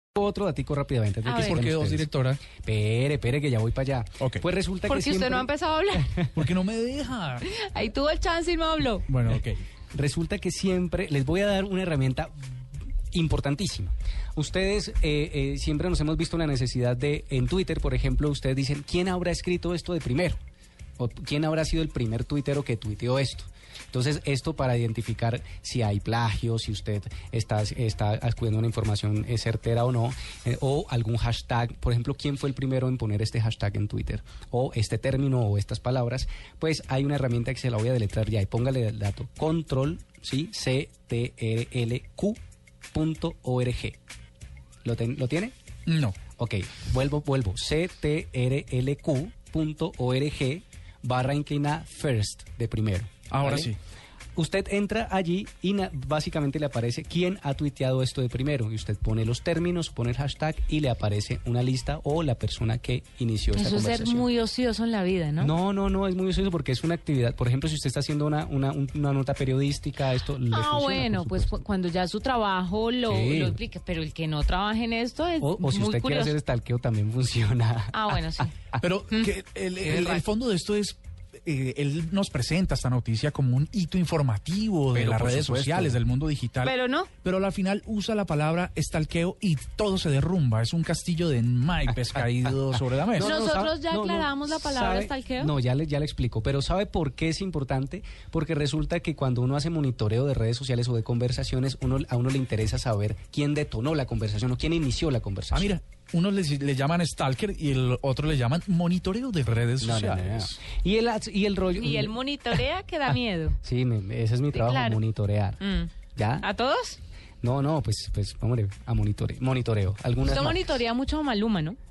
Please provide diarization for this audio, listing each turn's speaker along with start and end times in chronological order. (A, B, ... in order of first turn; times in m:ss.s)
0:00.2-0:05.5 A
0:01.2-0:01.6 B
0:01.4-0:02.4 C
0:04.9-0:06.1 B
0:06.4-0:07.4 C
0:07.4-0:09.1 B
0:09.1-0:09.6 C
0:09.9-0:12.3 A
0:13.1-0:20.4 A
0:21.0-0:42.4 A
0:42.9-0:44.0 A
0:44.8-0:45.5 A
0:45.9-0:46.2 C
0:46.4-0:53.7 A
0:53.3-0:53.8 C
0:54.4-1:04.3 A
1:03.6-1:05.5 B
1:05.4-1:11.6 A
1:10.5-1:16.4 B
1:13.1-1:13.6 A
1:15.4-1:18.8 A
1:17.9-1:18.5 B
1:18.8-1:33.3 C
1:19.9-1:20.2 B
1:24.9-1:26.0 A
1:26.6-1:27.1 B
1:31.9-1:45.8 A
1:33.2-1:35.5 B
1:45.5-1:50.6 C
1:49.8-1:52.2 A
1:51.8-1:53.6 B
1:53.1-1:55.6 A
1:54.5-1:55.0 B
1:55.6-1:57.0 B
1:56.2-1:56.5 A
1:57.4-2:00.8 A
2:00.2-2:01.8 B